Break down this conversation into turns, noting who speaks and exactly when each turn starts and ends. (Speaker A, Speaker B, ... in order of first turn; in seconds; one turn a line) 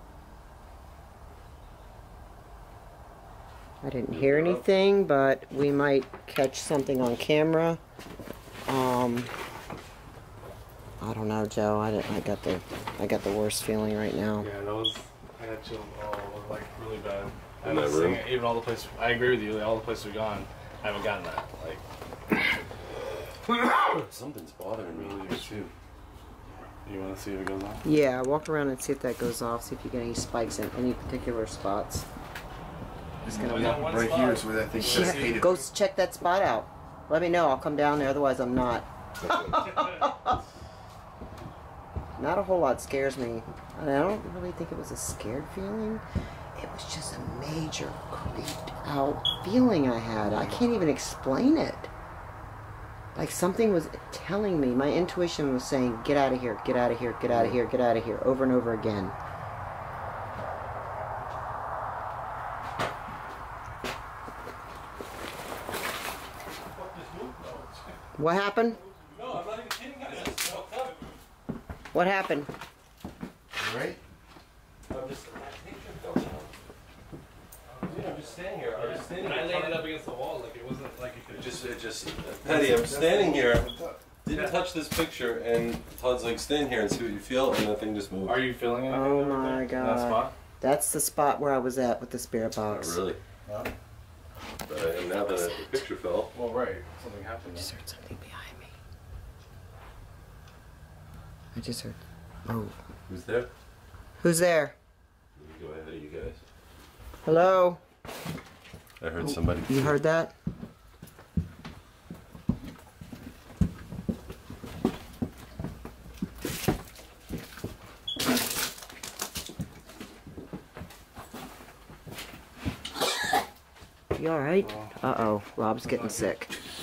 Speaker A: 3.8-7.8
Speaker B: 4.1-4.7
Speaker A: 8.7-9.3
Speaker A: 11.0-14.5
Speaker C: 14.4-21.8
Speaker B: 17.6-18.3
Speaker B: 23.8-25.7
Speaker C: 24.8-25.7
Speaker C: 26.8-27.9
Speaker A: 27.8-32.1
Speaker D: 33.2-35.6
Speaker C: 33.3-35.6
Speaker A: 33.4-33.8
Speaker A: 34.9-40.4
Speaker B: 39.2-40.1
Speaker A: 42.2-46.0
Speaker A: 46.5-51.9
Speaker A: 53.1-59.1
Speaker B: 66.6-68.0
Speaker A: 68.2-68.8
Speaker B: 68.8-71.2
Speaker A: 71.9-72.5
Speaker D: 73.5-74.0
Speaker B: 74.9-76.5
Speaker C: 77.7-81.7
Speaker B: 77.8-79.9
Speaker B: 81.3-83.7
Speaker D: 82.4-84.0
Speaker B: 84.2-88.5
Speaker C: 84.3-84.6
Speaker C: 88.3-90.3
Speaker A: 88.9-93.0
Speaker B: 92.7-93.2
Speaker C: 93.5-93.7
Speaker B: 94.7-96.3
Speaker A: 95.1-95.8
Speaker C: 96.3-97.7
Speaker A: 97.5-98.7
Speaker A: 101.5-102.8
Speaker B: 103.1-103.5
Speaker A: 104.2-104.8
Speaker B: 105.4-106.4
Speaker A: 107.2-107.8
Speaker B: 109.0-110.0
Speaker A: 109.2-110.3
Speaker A: 124.2-126.5
Speaker C: 124.6-126.4